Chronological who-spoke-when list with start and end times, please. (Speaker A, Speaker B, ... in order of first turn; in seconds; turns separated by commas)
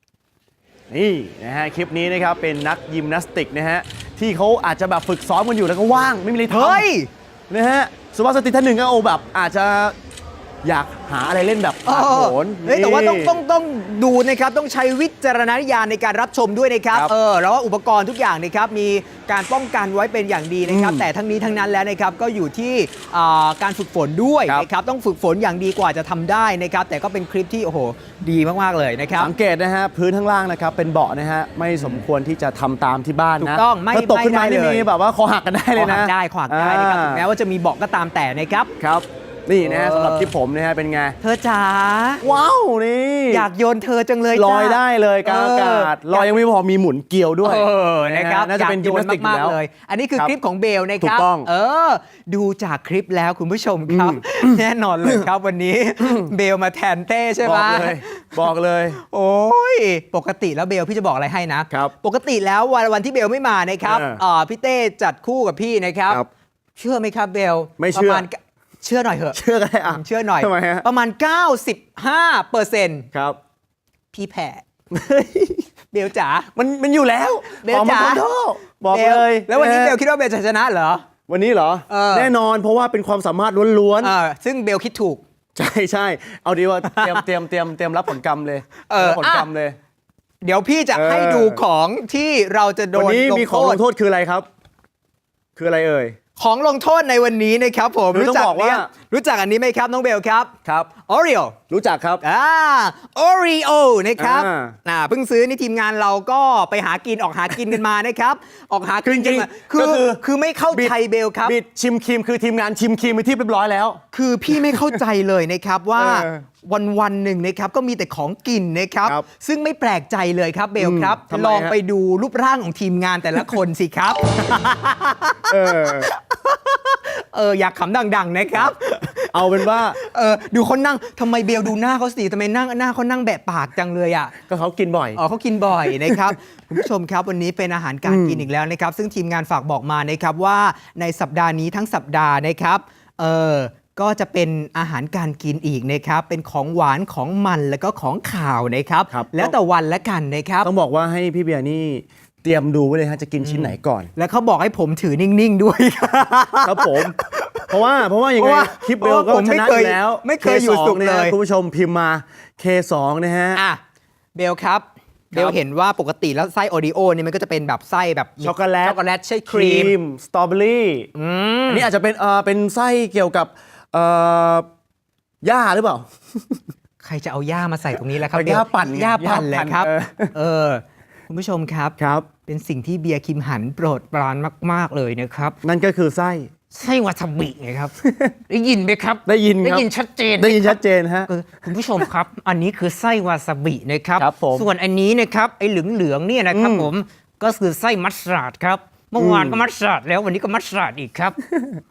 Speaker A: 0.9-6.9, Speaker B: 6.5-7.1, Speaker A: 7.5-9.9, Speaker A: 10.6-13.4, Speaker B: 11.9-29.3, Speaker A: 20.7-21.1, Speaker A: 29.2-37.2, Speaker B: 33.4-34.9, Speaker B: 35.8-38.7, Speaker A: 38.8-41.2, Speaker B: 39.6-40.3, Speaker B: 41.2-42.2, Speaker A: 42.2-43.5, Speaker B: 43.3-46.4, Speaker A: 44.3-49.6, Speaker B: 47.4-58.4, Speaker A: 51.0-51.5, Speaker A: 53.9-55.2, Speaker A: 56.0-56.3, Speaker A: 57.4-59.0, Speaker B: 59.0-66.2, Speaker A: 63.9-64.2, Speaker B: 66.8-73.1, Speaker A: 67.8-68.3, Speaker A: 69.3-70.9, Speaker A: 73.1-73.4, Speaker B: 74.1-74.6, Speaker A: 74.9-75.7, Speaker B: 75.9-76.5, Speaker A: 76.5-80.0, Speaker B: 77.5-78.2, Speaker B: 78.9-81.1, Speaker A: 81.3-84.2, Speaker B: 81.9-82.3, Speaker B: 84.0-85.2, Speaker A: 85.6-89.8, Speaker B: 86.8-87.2, Speaker B: 88.9-89.5, Speaker B: 90.4-93.8, Speaker A: 90.9-91.6, Speaker A: 92.9-94.5, Speaker A: 95.6-96.2, Speaker B: 96.4-100.5, Speaker A: 98.1-98.9, Speaker A: 100.7-100.9, Speaker B: 101.0-101.6, Speaker A: 101.7-102.2, Speaker B: 102.2-111.6, Speaker A: 104.2-104.8, Speaker A: 109.0-110.2, Speaker A: 110.7-114.0, Speaker B: 114.1-134.3, Speaker A: 114.5-115.0, Speaker A: 116.0-116.4, Speaker A: 120.8-121.8, Speaker A: 125.5-126.1, Speaker A: 129.3-130.0, Speaker A: 134.4-135.2, Speaker B: 135.2-150.7, Speaker A: 135.8-136.3, Speaker A: 138.1-138.5, Speaker A: 149.1-149.6, Speaker A: 150.6-154.1, Speaker B: 153.4-157.7, Speaker A: 156.6-157.2, Speaker A: 157.7-163.6, Speaker B: 158.4-161.4, Speaker B: 163.6-163.8, Speaker B: 164.4-169.9, Speaker A: 168.4-171.1, Speaker B: 171.2-171.9, Speaker A: 171.7-174.7, Speaker A: 175.4-176.6, Speaker B: 177.0-185.6, Speaker A: 178.3-180.3, Speaker A: 182.0-182.3, Speaker A: 185.6-186.5, Speaker B: 186.7-187.9, Speaker A: 188.0-188.3, Speaker B: 188.5-201.4, Speaker A: 189.3-189.9, Speaker A: 190.4-191.3, Speaker A: 194.2-194.7, Speaker A: 196.5-196.9, Speaker A: 199.2-199.6